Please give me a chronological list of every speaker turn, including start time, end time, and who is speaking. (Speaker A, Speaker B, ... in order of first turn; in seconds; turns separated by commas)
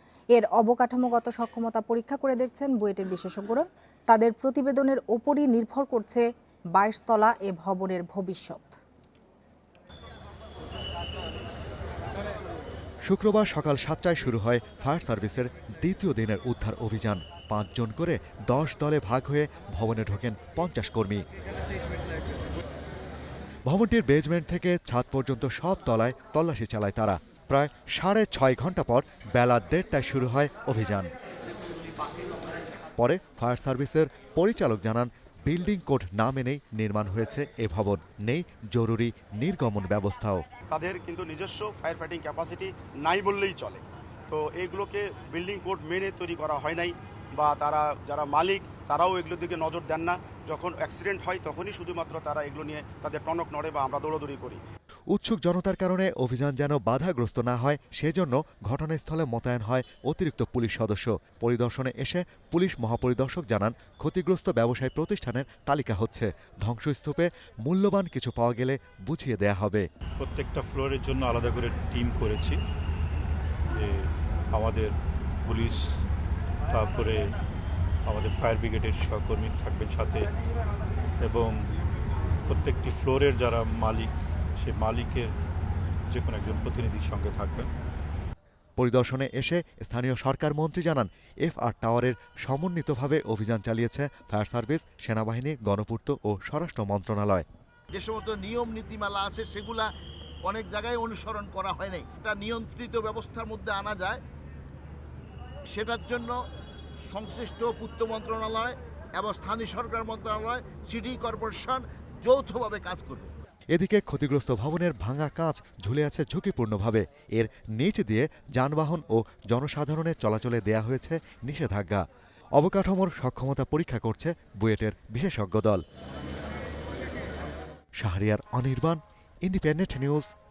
Speaker A: 0.3-6.2, Speaker A: 6.8-8.8, Speaker B: 13.1-21.2, Speaker B: 23.7-31.1, Speaker B: 33.0-40.4, Speaker C: 40.7-54.6, Speaker B: 55.1-69.8, Speaker D: 70.2-72.6, Speaker D: 73.8-75.8, Speaker D: 76.7-77.3, Speaker D: 78.0-80.3, Speaker D: 81.2-81.5, Speaker D: 82.5-85.3, Speaker D: 86.1-87.7, Speaker B: 88.8-97.4, Speaker E: 98.6-99.7, Speaker E: 100.5-104.2, Speaker E: 105.7-106.3, Speaker E: 107.1-113.2, Speaker B: 113.7-122.0, Speaker B: 122.6-125.8, Speaker B: 128.0-130.3